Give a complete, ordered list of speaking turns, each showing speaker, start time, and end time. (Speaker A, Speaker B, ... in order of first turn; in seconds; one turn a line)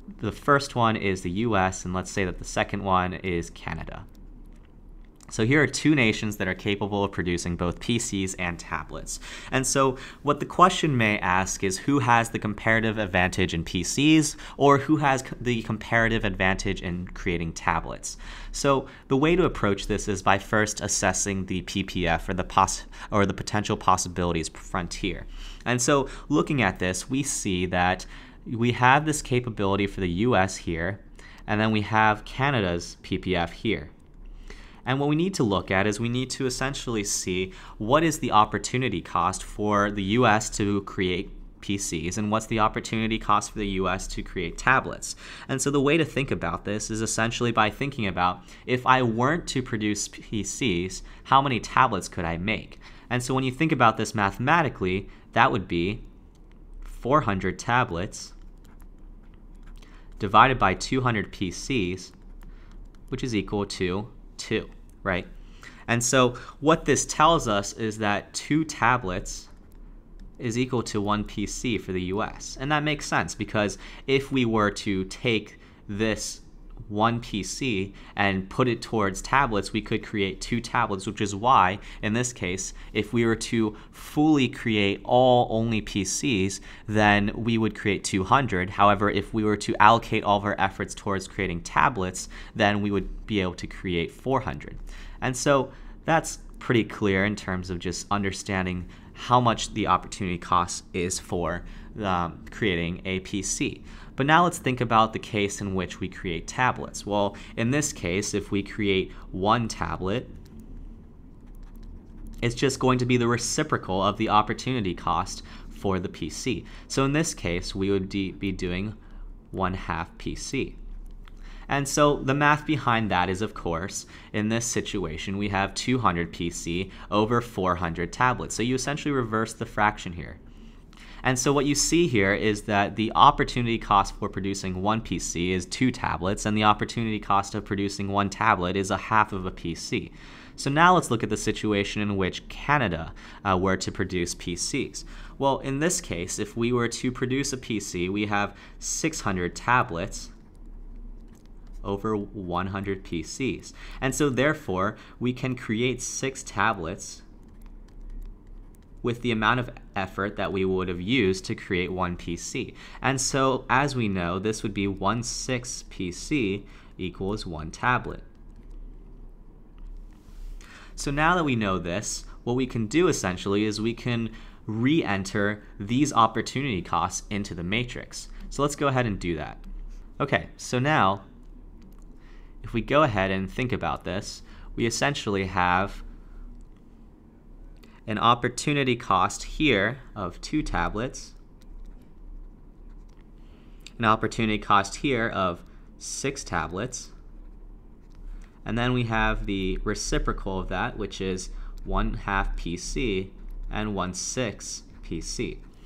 Speaker A: 0.2-4.1
Speaker A: 5.3-33.9
Speaker A: 34.9-56.0
Speaker A: 56.8-58.3
Speaker A: 60.2-62.1
Speaker A: 63.1-65.3
Speaker A: 65.9-69.5
Speaker A: 70.4-110.3
Speaker A: 112.4-119.0
Speaker A: 119.5-120.8
Speaker A: 121.7-130.4
Speaker A: 131.2-150.3
Speaker A: 151.8-157.2
Speaker A: 159.0-168.2
Speaker A: 171.0-179.6
Speaker A: 180.2-181.2
Speaker A: 182.6-186.0
Speaker A: 188.1-191.3
Speaker A: 194.0-197.1
Speaker A: 198.7-205.6